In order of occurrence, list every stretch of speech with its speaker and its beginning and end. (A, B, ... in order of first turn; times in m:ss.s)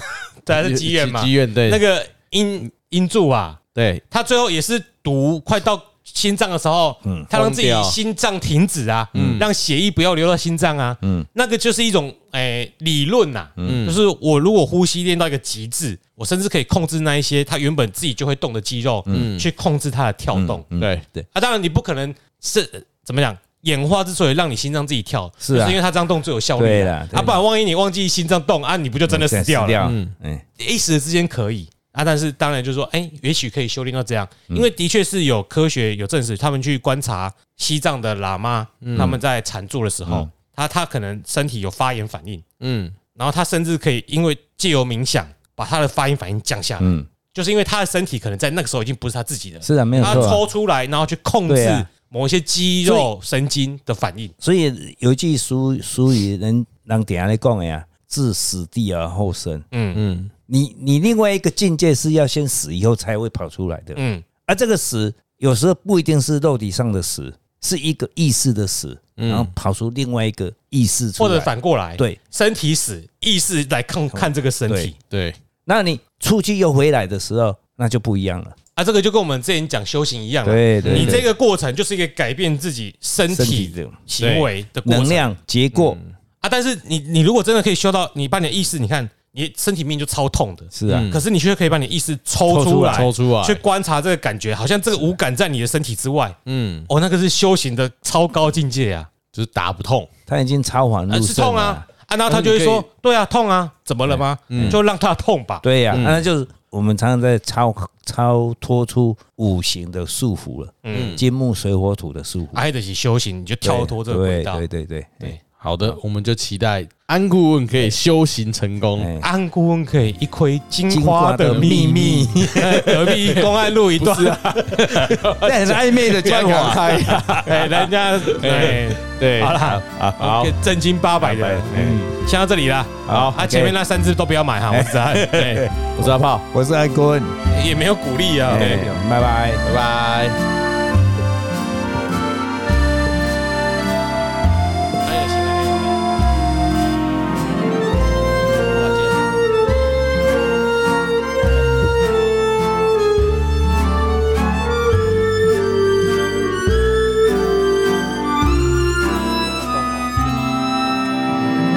0:00.4-0:03.6 A
0:00.6-0:01.8 B
0:03.8-0:04.0 B
0:04.1-0:20.6 A
0:07.3-0:08.0 B
0:09.1-0:09.4 C
0:09.1-0:09.5 B
0:11.0-0:11.3 C
0:13.6-0:13.9 C
0:13.6-0:14.0 B
0:19.1-0:19.5 B
0:20.3-0:21.3 C
0:20.8-0:21.0 B
0:21.3-0:29.8 A
0:25.4-0:25.8 C
0:26.6-0:27.4 C
0:29.1-0:30.4 C
0:29.8-0:30.1 B
0:30.6-0:42.4 A
0:38.8-0:39.2 B
0:42.6-0:43.0 B
0:43.2-0:54.3 A
0:46.8-0:47.1 C
0:49.6-0:50.4 C
0:49.9-0:50.4 B
0:51.5-0:51.9 C
0:52.8-0:53.1 C
0:54.4-0:59.6 C
0:59.7-1:00.0 A
0:59.9-1:00.3 B
1:00.5-1:12.2 C
1:04.0-1:04.2 A
1:09.2-1:09.5 B
1:11.2-1:15.0 A
1:14.1-1:14.9 C
1:15.1-1:15.4 B
1:15.7-1:18.6 C
1:18.8-1:25.2 A
1:20.4-1:21.3 C
1:20.8-1:21.3 B
1:23.3-1:24.0 C
1:24.2-1:24.5 B
1:24.8-1:26.0 C
1:25.7-1:26.1 B
1:26.4-1:36.4 A
1:30.7-1:31.1 C
1:30.9-1:31.2 B
1:32.5-1:33.1 C
1:32.9-1:33.6 B
1:36.5-1:36.9 B
1:36.9-1:39.1 A
1:39.3-1:40.1 B
1:40.3-1:41.8 C
1:41.1-1:45.6 A
1:42.3-1:42.9 B
1:44.1-1:44.8 C
1:44.5-1:44.8 B
1:45.6-1:52.6 C
1:45.9-1:46.2 B
1:50.8-1:51.2 A
1:50.9-1:51.2 B
1:52.5-1:54.6 A
1:53.6-1:55.4 C
1:55.6-1:59.1 B
1:59.0-1:59.3 C
1:59.2-2:15.3 A
2:00.9-2:03.2 C
2:01.5-2:02.0 B
2:02.7-2:07.7 B
2:04.7-2:07.9 C
2:08.3-2:09.6 B
2:08.4-2:08.8 C
2:09.6-2:10.5 C
2:11.2-2:12.1 C
2:11.8-2:12.0 B
2:13.1-2:13.8 C
2:13.1-2:13.4 B
2:14.7-2:17.4 C
2:15.3-2:16.5 B
2:17.5-2:19.0 A
2:18.5-2:19.6 C
2:19.6-2:20.4 B
2:25.0-2:26.0 A
2:28.7-2:29.2 A
2:39.8-2:40.1 A